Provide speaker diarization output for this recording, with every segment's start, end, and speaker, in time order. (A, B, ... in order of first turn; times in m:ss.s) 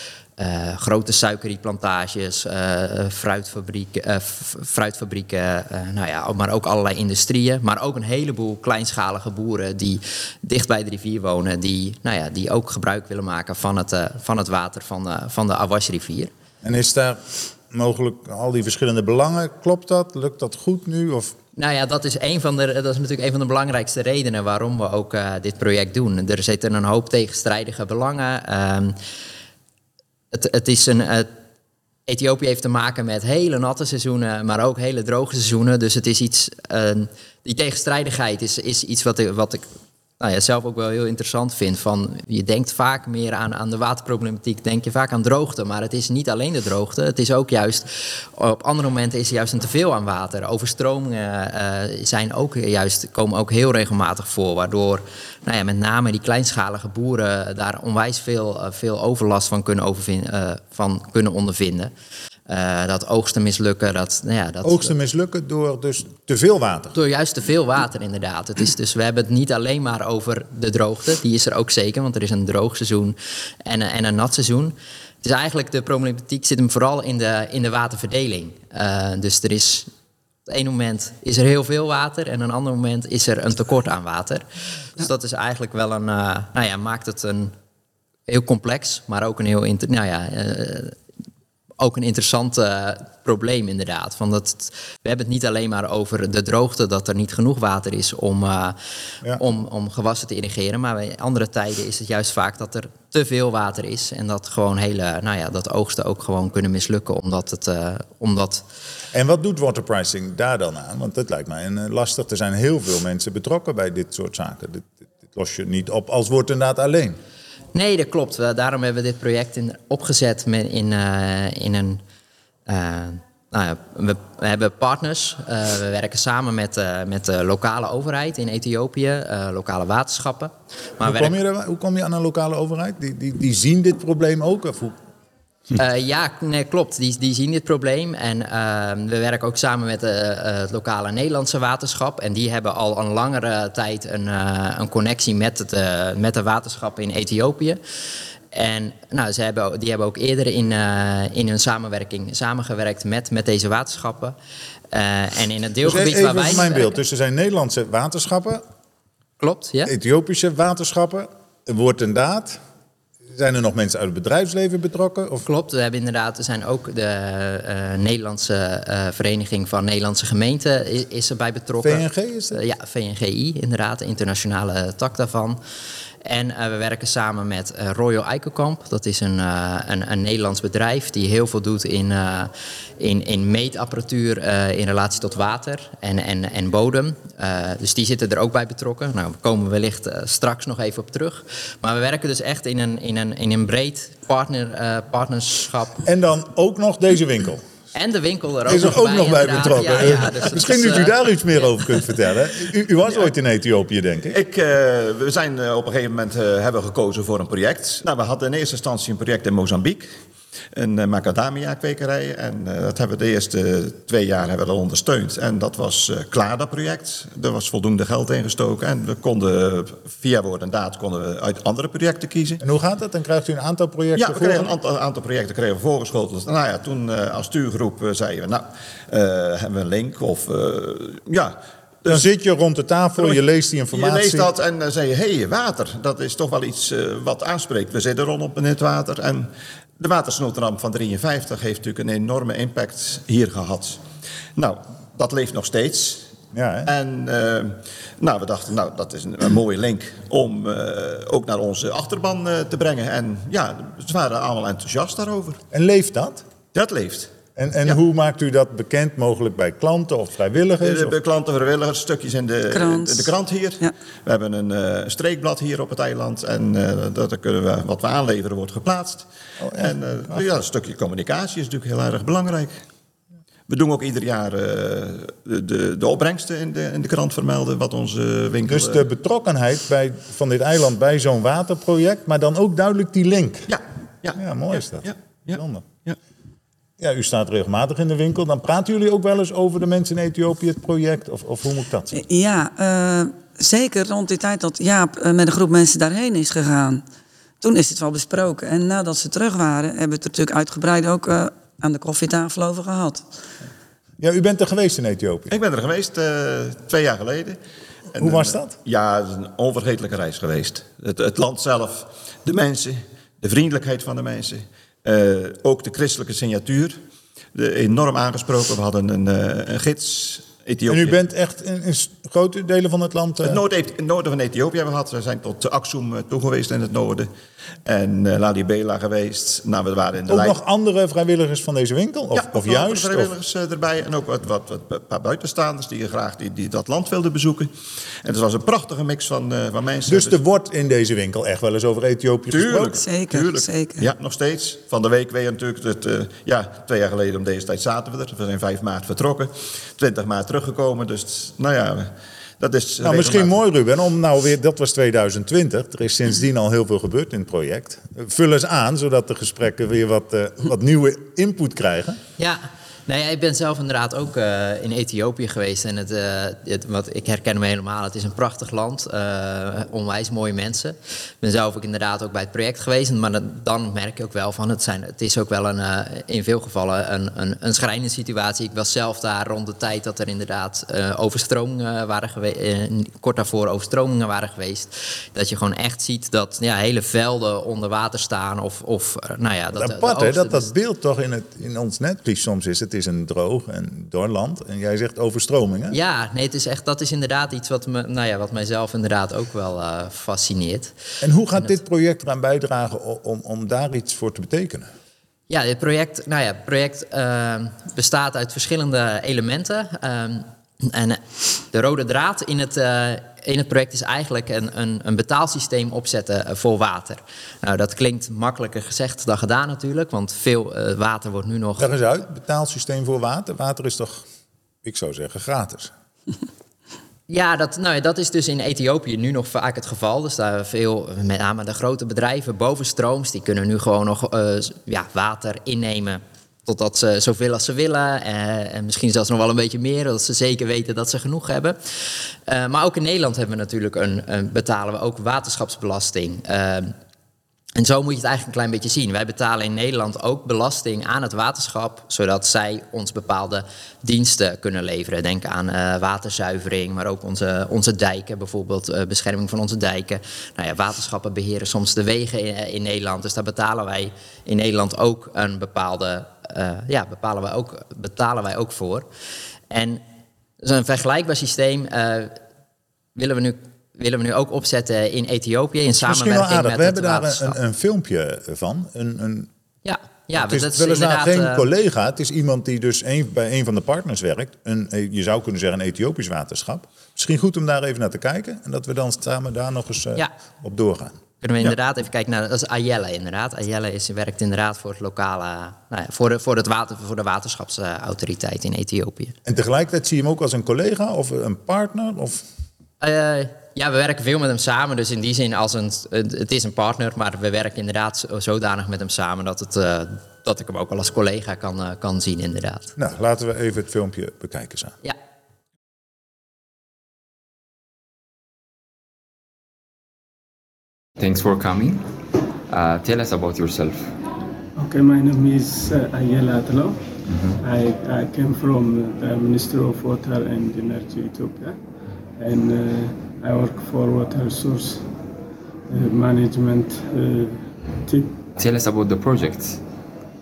0:00.4-0:16.3 A
0:16.6-0:21.4 B
0:21.6-0:29.0 A
0:30.3-0:31.3 A
0:32.1-0:39.7 A
0:40.2-1:01.9 A
1:02.5-1:04.9 A
1:04.6-1:07.0 B
1:06.9-1:19.9 A
1:20.5-1:27.5 A
1:28.3-1:31.0 A
1:31.8-1:38.8 A
1:39.4-1:48.6 A
1:49.1-1:57.2 B
1:57.7-2:02.0 A
2:02.7-2:11.4 A
2:11.0-2:15.0 B
2:15.8-2:27.8 A
2:28.5-2:34.4 A
2:34.9-2:37.0 A
2:35.8-2:38.6 B
2:39.4-2:39.9 A
2:39.8-2:42.6 B
2:43.3-2:45.4 B
2:45.4-2:55.6 A
2:51.8-2:52.6 B
2:56.2-3:16.0 A
3:16.0-3:17.6 B
3:17.9-3:21.7 A
3:18.7-3:24.4 B
3:24.3-3:30.1 C
3:30.7-3:42.6 C
3:42.6-3:44.8 B
3:44.2-3:52.3 C
3:52.1-3:54.5 B
3:53.9-4:04.0 C
4:04.6-4:06.3 C
4:06.5-4:06.9 B
4:06.8-4:15.6 C
4:15.7-4:16.5 B
4:16.7-4:18.0 C
4:17.6-4:21.2 B
4:20.8-4:32.8 C
4:22.7-4:23.9 D
4:29.6-4:30.4 B
4:33.7-4:39.1 C
4:38.7-4:43.8 B
4:43.7-4:46.2 C
4:44.4-4:45.9 B
4:47.0-4:52.2 B
4:52.1-4:57.0 D
4:57.6-5:03.2 D
5:04.2-5:05.6 B
5:05.5-5:07.6 C
5:08.1-5:17.0 C
5:08.2-5:08.8 B
5:17.5-5:21.2 C
5:20.9-5:23.6 B
5:23.4-5:27.3 C
5:27.8-5:30.6 C
5:30.3-5:33.3 B
5:32.3-5:37.7 C
5:38.2-5:40.4 C
5:40.1-5:43.0 B
5:42.5-5:53.5 C
5:42.8-5:44.1 D
5:53.0-6:02.2 B
6:02.4-6:30.7 A
6:29.8-6:36.0 B
6:35.9-6:40.9 A
6:41.2-6:44.9 B
6:45.5-7:01.9 A
7:01.8-7:04.2 B
7:04.8-7:05.9 B
7:07.3-7:26.9 A
7:27.8-7:49.1 A
7:49.7-7:50.0 A
7:50.6-7:52.4 A
7:53.2-7:57.6 A
7:56.0-7:59.5 B
7:59.8-8:01.7 A
8:00.4-8:11.8 B
8:11.4-8:19.4 A
8:19.4-8:22.4 B
8:23.0-8:32.9 A
8:33.0-8:35.0 B
8:41.2-8:42.0 E
8:42.7-8:44.1 E
8:44.8-8:51.8 F
8:47.3-8:47.6 E
8:52.4-8:55.1 F
8:55.9-8:58.4 F
8:58.6-8:59.8 E